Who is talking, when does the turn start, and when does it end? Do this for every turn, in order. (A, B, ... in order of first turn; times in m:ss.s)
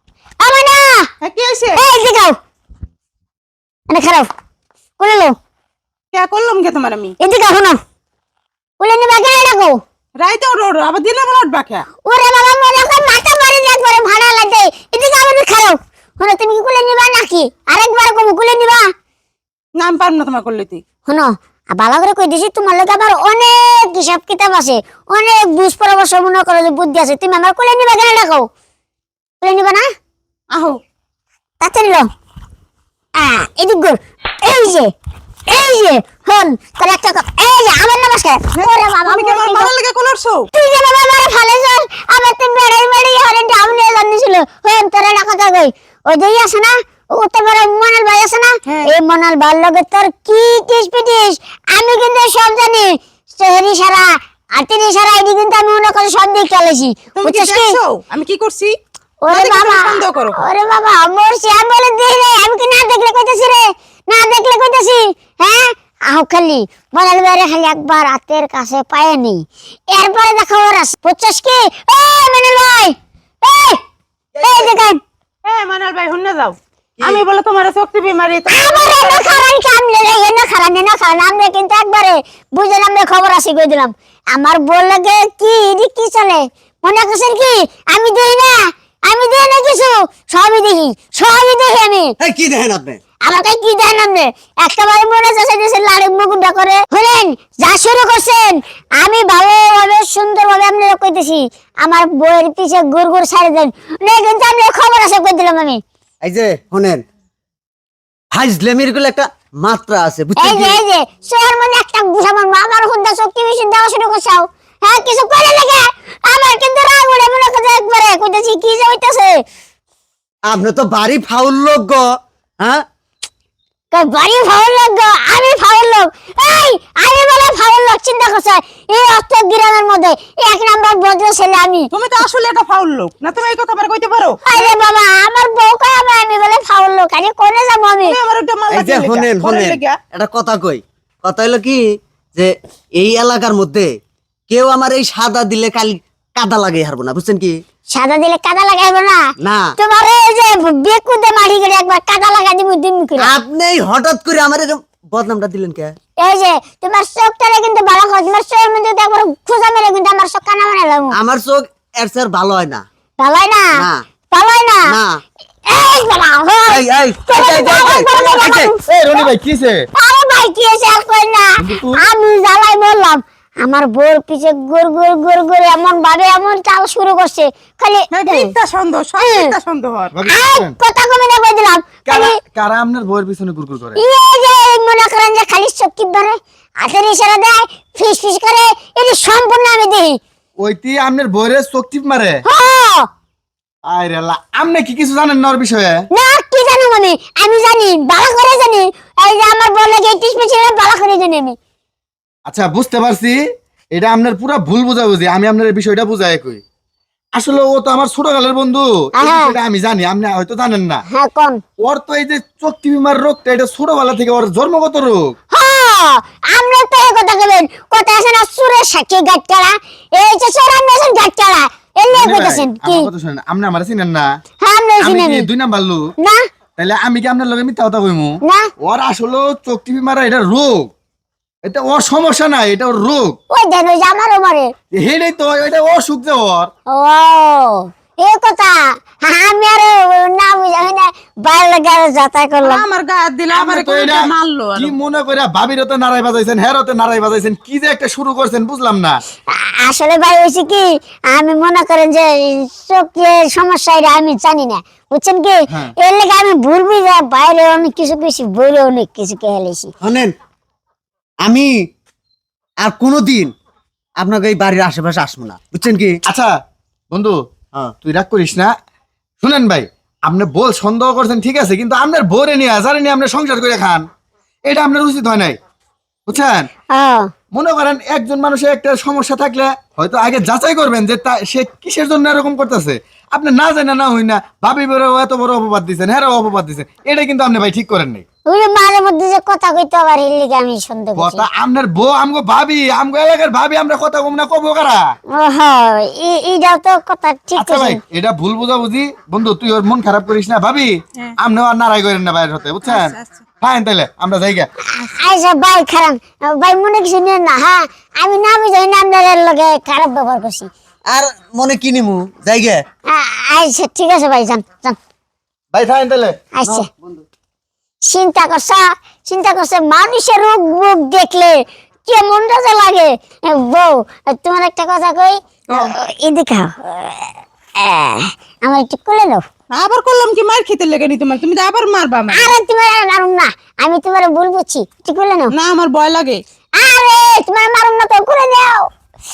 0:00.4-0:01.1 A
0:01.2-0:01.8 B
0:01.8-0:02.4 A
0:03.9-0:04.3 A
0:05.0-0:05.3 A
0:06.1-0:07.1 B
0:07.2-0:07.8 A
0:08.8-0:09.8 A
0:10.2-0:11.8 B
0:12.0-0:18.9 A
0:19.8-0:20.8 B
0:21.1-0:28.5 A
0:29.4-0:29.9 A
0:30.5-0:30.8 B
0:31.6-0:32.1 A
0:33.1-0:34.9 A
0:35.5-0:39.7 A
0:38.5-0:40.4 B
0:40.5-0:57.8 A
0:48.6-0:48.9 B
0:57.2-0:58.8 B
0:59.2-1:13.8 A
0:59.3-1:00.4 B
1:14.4-1:15.0 A
1:15.4-1:19.4 B
1:18.5-1:32.1 A
1:32.2-1:33.0 C
1:33.2-1:45.8 A
1:46.2-1:47.0 C
1:48.3-1:50.8 C
1:50.4-1:59.4 A
2:00.5-2:02.0 C
2:03.9-2:11.9 A
2:11.9-2:14.7 B
2:14.4-2:18.1 A
2:18.0-2:20.0 B
2:18.7-2:21.8 C
2:22.3-2:23.9 C
2:24.5-2:27.6 C
2:27.9-2:29.2 A
2:29.4-2:29.7 C
2:29.8-2:33.4 A
2:33.2-2:35.9 C
2:36.2-2:41.1 A
2:41.2-2:42.8 C
2:43.2-2:43.8 A
2:43.8-2:44.0 C
2:44.3-2:44.9 A
2:44.9-2:45.2 C
2:45.7-2:49.3 A
2:46.7-2:48.7 C
2:48.1-2:49.8 D
2:50.0-2:58.5 A
2:51.6-2:52.0 D
2:58.1-3:00.1 B
2:59.2-2:59.5 A
3:00.1-3:00.7 D
3:00.3-3:02.4 A
3:02.1-3:04.0 D
3:04.0-3:10.2 A
3:10.6-3:12.4 D
3:12.4-3:13.1 A
3:13.8-3:16.0 D
3:16.1-3:21.6 A
3:22.5-3:23.4 D
3:23.9-3:26.6 D
3:27.4-3:31.0 D
3:29.2-3:29.5 A
3:31.1-3:31.6 A
3:31.8-3:35.3 D
3:35.5-3:43.1 A
3:42.1-3:44.3 D
3:44.6-3:45.5 A
3:45.0-3:46.0 D
3:46.8-3:50.9 D
3:51.6-3:53.4 D
3:53.5-3:54.7 A
3:54.9-3:56.7 D
3:56.9-4:02.8 A
4:02.6-4:04.9 B
4:03.5-4:09.2 D
4:09.5-4:19.9 A
4:20.0-4:20.3 C
4:21.4-4:21.7 C
4:22.8-4:23.5 C
4:24.2-4:26.2 C
4:26.2-4:26.5 D
4:27.1-4:27.4 D
4:28.0-4:28.7 D
4:29.4-4:34.0 D
4:34.6-4:35.6 D
4:36.3-4:36.7 D
4:36.9-4:37.3 A
4:37.5-4:48.2 D
4:48.5-4:51.4 A
4:51.2-4:55.0 D
4:55.3-4:58.0 A
4:57.6-5:04.7 D
5:02.8-5:03.4 B
5:04.9-5:10.7 A
5:11.1-5:12.8 C
5:13.1-5:15.0 A
5:15.7-5:16.4 D
5:16.5-5:16.9 A
5:16.7-5:17.2 C
5:18.0-5:29.4 A
5:29.7-5:32.5 B
5:32.3-5:35.5 A
5:35.5-5:36.4 B
5:36.8-5:38.9 A